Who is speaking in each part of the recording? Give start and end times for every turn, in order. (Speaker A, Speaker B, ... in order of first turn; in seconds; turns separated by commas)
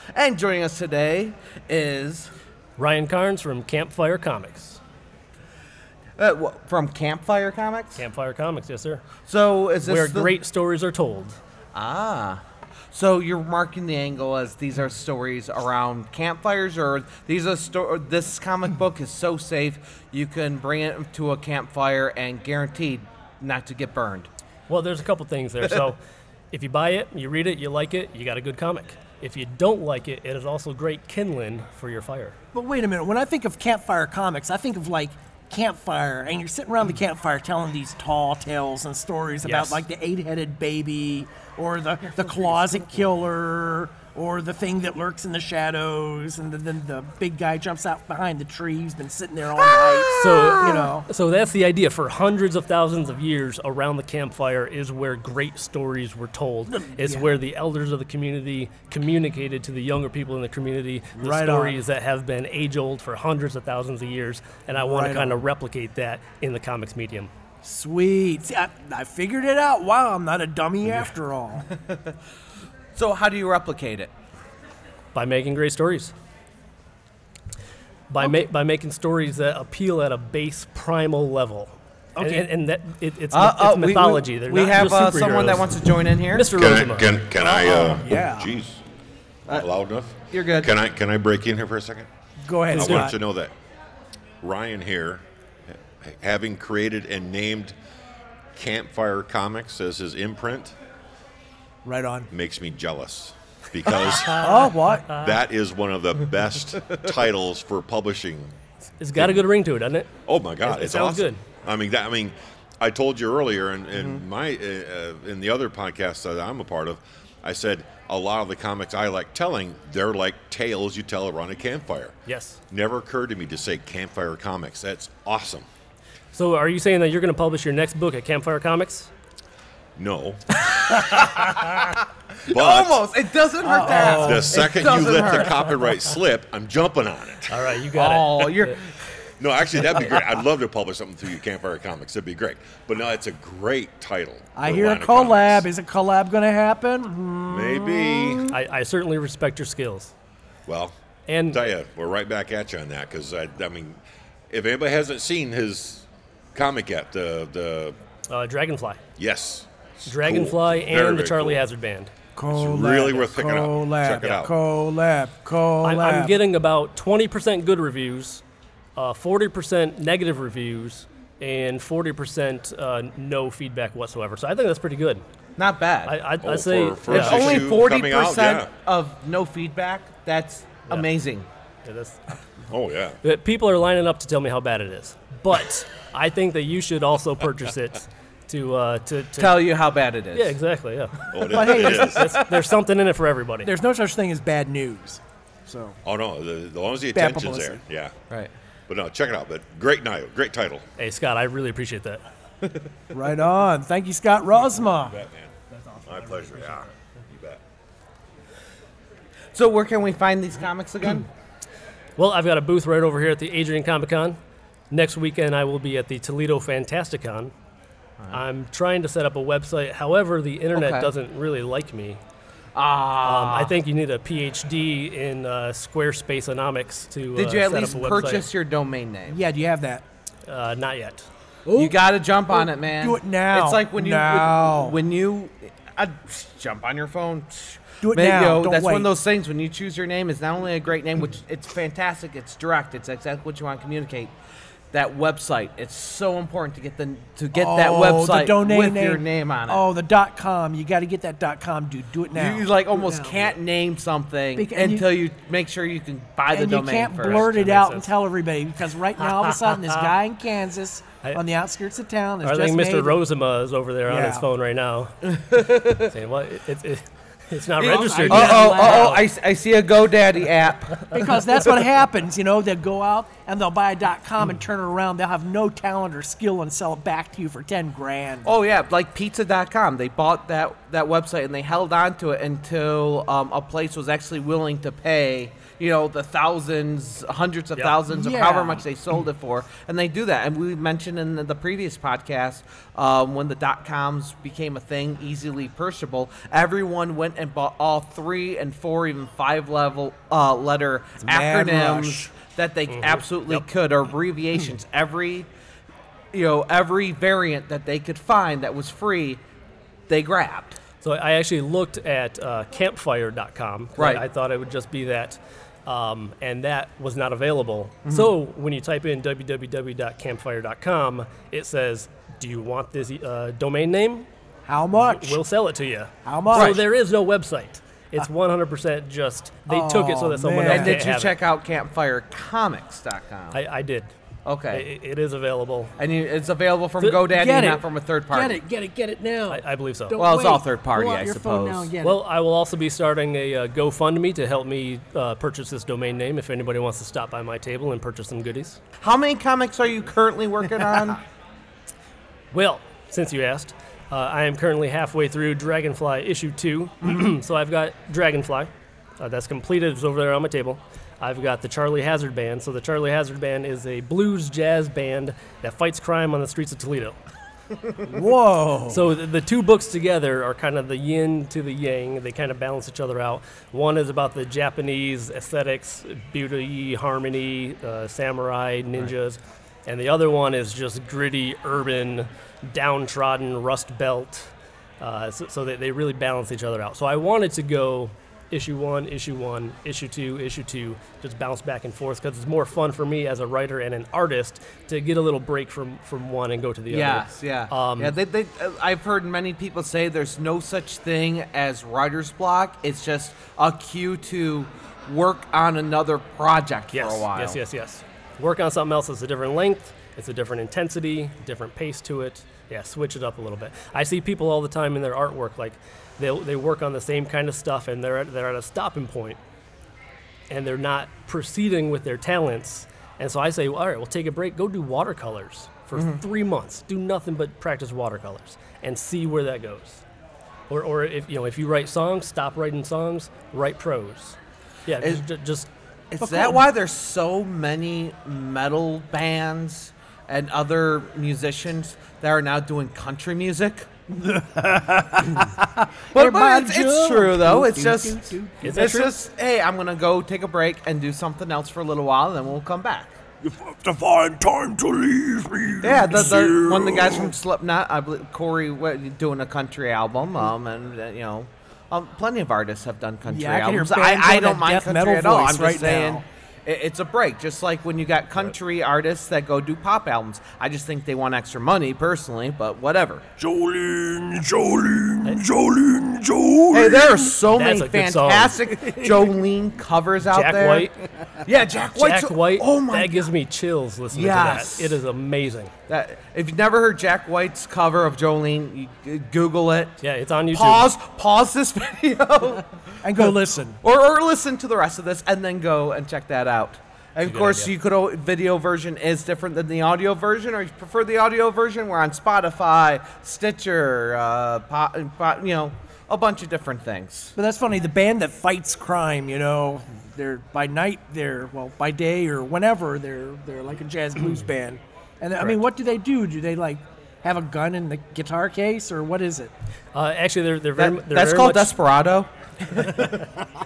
Speaker A: 0.1-2.3, Speaker B: 2.8-4.8, Speaker A: 6.2-8.0, Speaker B: 8.0-9.1, Speaker A: 9.3-10.3, Speaker B: 9.8-11.4, Speaker A: 11.7-12.4, Speaker A: 12.9-24.3, Speaker B: 24.7-26.0, Speaker B: 26.5-32.4, Speaker C: 32.5-51.1, Speaker B: 39.4-39.8, Speaker B: 50.2-67.3, Speaker C: 56.7-57.3, Speaker C: 61.2-61.8, Speaker C: 64.8-65.4, Speaker C: 67.6-71.7, Speaker A: 73.0-74.1, Speaker B: 75.1-76.1, Speaker B: 78.1-85.8, Speaker C: 82.2-82.5, Speaker A: 83.3-86.5, Speaker B: 86.3-87.2, Speaker D: 86.5-88.8, Speaker A: 87.4-88.0, Speaker C: 87.8-88.5, Speaker D: 89.5-92.1, Speaker A: 90.3-90.7, Speaker C: 92.4-93.2, Speaker B: 92.7-93.1, Speaker D: 92.7-93.5, Speaker D: 94.4-97.8, Speaker D: 98.5-100.8, Speaker C: 101.8-102.3, Speaker D: 102.3-108.5, Speaker B: 104.0-105.3, Speaker C: 104.4-105.2, Speaker B: 109.0-110.1, Speaker D: 109.2-109.4, Speaker D: 110.3-122.2, Speaker B: 110.6-111.4, Speaker B: 122.3-122.6, Speaker D: 122.7-125.7, Speaker B: 126.3-129.1, Speaker D: 130.0-130.7, Speaker A: 131.9-135.7, Speaker D: 132.5-133.0, Speaker C: 133.6-134.8, Speaker D: 133.9-137.8, Speaker B: 137.5-138.8, Speaker A: 137.9-138.8, Speaker D: 139.4-145.7, Speaker C: 144.6-148.5, Speaker D: 147.5-148.5, Speaker B: 148.5-150.1, Speaker D: 150.7-150.9, Speaker B: 151.3-151.7, Speaker D: 151.5-154.0, Speaker D: 154.5-157.9, Speaker B: 158.3-159.0, Speaker D: 159.2-161.6, Speaker B: 160.1-162.1, Speaker C: 162.4-166.3, Speaker D: 162.5-164.6, Speaker B: 165.8-168.4, Speaker B: 169.0-175.2, Speaker A: 175.6-176.2, Speaker B: 176.1-177.7, Speaker D: 176.4-178.7, Speaker A: 177.1-181.5, Speaker B: 181.8-182.2, Speaker D: 182.7-183.2, Speaker B: 183.2-189.6, Speaker A: 189.4-190.6, Speaker B: 190.3-193.7, Speaker D: 191.3-192.3, Speaker C: 191.5-192.4, Speaker A: 191.6-192.2, Speaker C: 193.7-196.0, Speaker D: 196.1-198.1, Speaker C: 197.1-197.8, Speaker D: 198.9-200.8, Speaker B: 201.0-202.2, Speaker C: 203.1-205.2, Speaker D: 204.9-207.6, Speaker A: 209.6-211.3, Speaker B: 212.2-214.4, Speaker B: 214.9-217.5, Speaker B: 218.3-222.2, Speaker A: 220.8-221.1, Speaker A: 222.8-223.7, Speaker B: 223.2-228.5, Speaker A: 227.4-229.4, Speaker C: 229.3-230.0, Speaker B: 230.5-231.3, Speaker C: 231.7-232.0, Speaker A: 231.8-244.3, Speaker C: 232.5-235.0, Speaker C: 238.0-239.1, Speaker A: 244.9-249.8, Speaker C: 247.5-253.4, Speaker A: 252.3-257.5, Speaker C: 254.6-255.1, Speaker C: 256.5-263.2, Speaker B: 257.3-258.1, Speaker B: 259.3-260.1, Speaker B: 262.4-269.2, Speaker C: 264.1-264.5, Speaker A: 265.5-266.1, Speaker A: 267.8-271.7, Speaker C: 267.8-269.2, Speaker C: 271.1-278.5, Speaker A: 278.4-305.5, Speaker C: 288.1-288.8, Speaker C: 301.2-302.3, Speaker B: 302.9-303.6, Speaker A: 306.3-309.4, Speaker A: 310.1-310.8, Speaker B: 311.0-324.3, Speaker A: 314.0-314.2, Speaker A: 318.1-318.3, Speaker C: 324.7-325.4, Speaker B: 324.9-331.4, Speaker C: 326.2-326.8, Speaker A: 326.5-326.8, Speaker C: 329.7-331.1, Speaker A: 330.7-333.6, Speaker B: 333.5-334.1, Speaker A: 334.4-334.9, Speaker B: 334.7-335.9, Speaker A: 336.0-338.6, Speaker C: 337.3-342.2, Speaker B: 339.5-340.2, Speaker A: 340.2-341.9, Speaker B: 342.0-348.8, Speaker A: 349.0-351.2, Speaker B: 352.5-367.2, Speaker C: 368.1-369.1, Speaker B: 368.9-398.1, Speaker A: 396.9-407.6, Speaker B: 406.9-419.4, Speaker B: 420.5-430.0, Speaker B: 430.7-435.7, Speaker A: 436.1-443.9, Speaker C: 436.2-436.6, Speaker C: 444.1-449.0, Speaker A: 446.1-453.1, Speaker B: 448.6-449.1, Speaker C: 453.4-457.3, Speaker A: 455.8-473.2, Speaker C: 463.3-466.2, Speaker C: 473.4-477.4, Speaker A: 476.7-483.3, Speaker B: 477.5-478.7, Speaker B: 480.3-480.9, Speaker B: 481.9-485.7, Speaker A: 484.1-485.0, Speaker A: 485.9-490.0, Speaker B: 490.0-490.9, Speaker A: 490.5-493.3, Speaker C: 493.0-493.8, Speaker A: 493.8-507.3, Speaker B: 497.2-497.7, Speaker C: 507.4-519.5, Speaker B: 519.9-521.7, Speaker A: 520.8-523.2